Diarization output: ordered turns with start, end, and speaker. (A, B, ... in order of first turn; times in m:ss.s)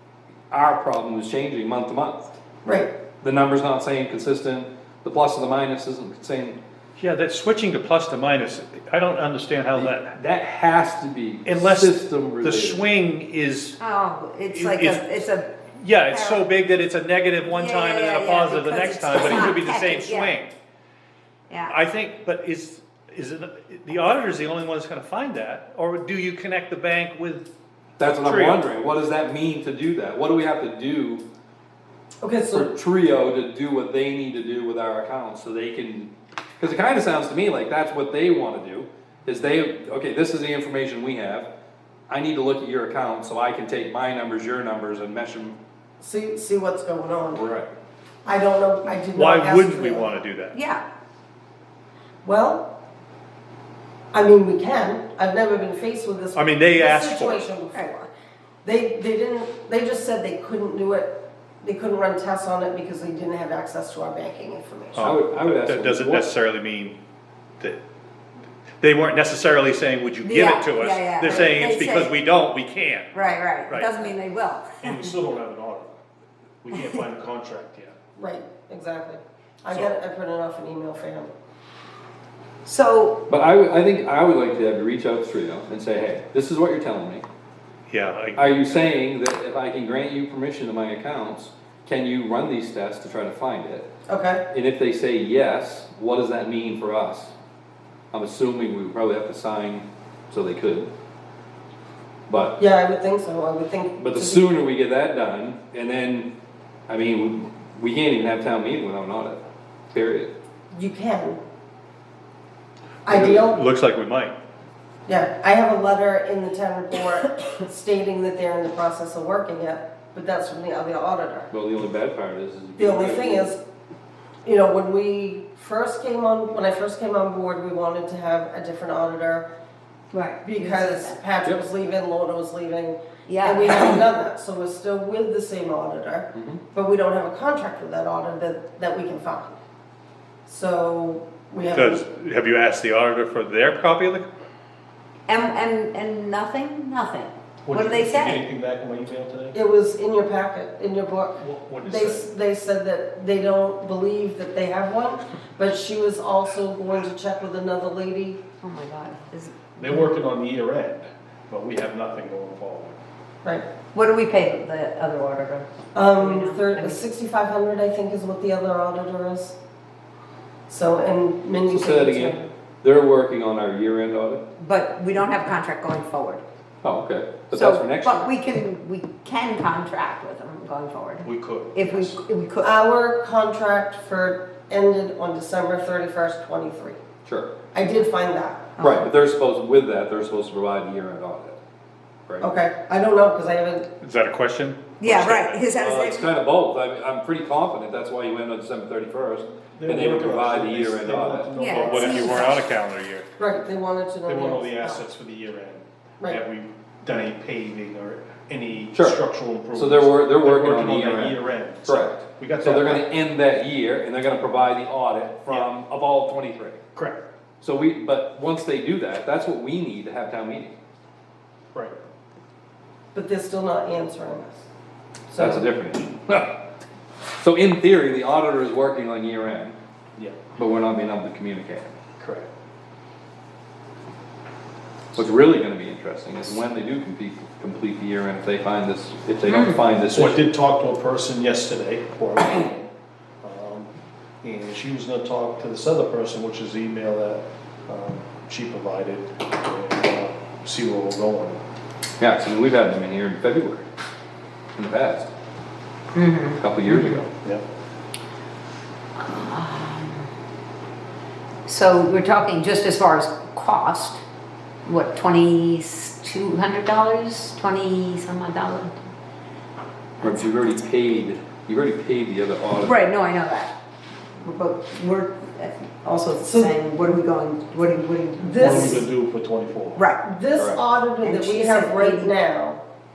0:00.5-0:02.3 A
0:02.6-0:02.9 B
0:03.2-0:06.6 A
0:07.0-0:10.1 C
0:09.7-0:12.9 A
0:11.5-0:13.8 C
0:13.8-0:15.5 D
0:14.5-0:15.1 C
0:15.8-0:20.5 C
0:16.1-0:16.5 D
0:17.4-0:20.4 D
0:21.5-0:21.8 D
0:21.7-0:27.5 C
0:28.0-0:31.2 A
0:28.2-0:28.6 C
0:32.2-0:32.7 B
0:32.5-0:41.5 A
0:42.1-0:45.6 A
0:46.0-0:47.4 B
0:47.3-0:47.7 A
0:48.2-0:50.2 B
0:49.1-0:50.6 C
0:50.5-0:50.8 D
0:52.2-0:52.7 B
0:54.1-0:58.1 B
0:56.4-0:57.5 C
0:58.6-1:05.1 B
1:05.0-1:07.0 C
1:05.0-1:06.3 A
1:08.8-1:14.0 C
1:10.2-1:12.1 D
1:11.3-1:11.7 B
1:13.1-1:15.1 D
1:14.8-1:16.0 E
1:16.6-1:18.0 E
1:18.2-1:21.3 B
1:22.6-1:23.2 D
1:23.3-1:27.2 A
1:27.9-1:28.7 C
1:28.4-1:33.9 A
1:34.1-1:34.4 B
1:34.5-1:37.3 A
1:38.1-1:40.9 A
1:42.3-1:42.6 A
1:42.6-1:44.4 B
1:44.0-1:46.3 A
1:46.9-1:50.3 A
1:50.7-1:51.4 B
1:53.1-1:53.6 B
1:53.1-1:53.4 A
1:53.1-1:54.4 C
1:55.1-2:01.5 B
2:01.5-2:03.5 A
2:02.8-2:03.6 B
2:04.4-2:09.5 B
2:10.1-2:11.2 D
2:10.4-2:19.6 B
2:13.3-2:14.0 D
2:16.3-2:16.6 A
2:20.5-2:22.0 B
2:21.8-2:24.3 C
2:25.3-2:28.4 D
2:27.7-2:29.6 E
2:29.5-2:38.4 B
2:31.4-2:32.2 E
2:38.6-2:40.1 D
2:39.8-2:43.0 E
2:43.9-2:47.0 D
2:45.9-2:49.6 B
2:50.7-2:52.5 B
2:51.7-2:54.4 A
2:54.6-2:56.4 D
2:56.8-2:58.2 A
2:57.5-3:02.8 D
3:01.2-3:02.2 E
3:02.6-3:07.0 B
3:07.3-3:07.5 A
3:07.7-3:08.7 B
3:08.8-3:09.1 D
3:08.8-3:11.6 A
3:12.4-3:13.9 B
3:14.0-3:15.6 C
3:15.0-3:16.3 D
3:15.7-3:21.5 A
3:19.8-3:22.5 E
3:21.6-3:22.6 D
3:21.8-3:23.3 C
3:22.1-3:22.3 B
3:23.4-3:25.0 B
3:24.3-3:33.1 E
3:29.0-3:29.2 A
3:29.7-3:36.8 A
3:37.6-3:40.8 A
3:41.7-3:42.0 E
3:43.1-3:44.7 B
3:45.3-3:45.7 B
3:45.4-3:46.6 A
3:47.4-3:49.8 A
3:50.6-3:51.9 A
3:52.2-3:52.5 E
3:55.2-4:00.4 A
3:59.5-3:59.8 D
4:00.1-4:03.9 E
4:04.4-4:11.6 E
4:12.2-4:13.8 A
4:14.8-4:15.3 A
4:16.1-4:17.2 D
4:16.6-4:17.3 A
4:19.2-4:20.3 D
4:21.7-4:24.2 D
4:24.8-4:29.0 D
4:30.2-4:33.0 A
4:30.2-4:30.8 D
4:32.8-4:33.7 D
4:34.4-4:39.1 D
4:36.1-4:36.7 B
4:38.4-4:39.1 B
4:38.6-4:40.0 E
4:40.0-4:40.2 D
4:40.2-4:42.8 B
4:41.2-4:42.3 D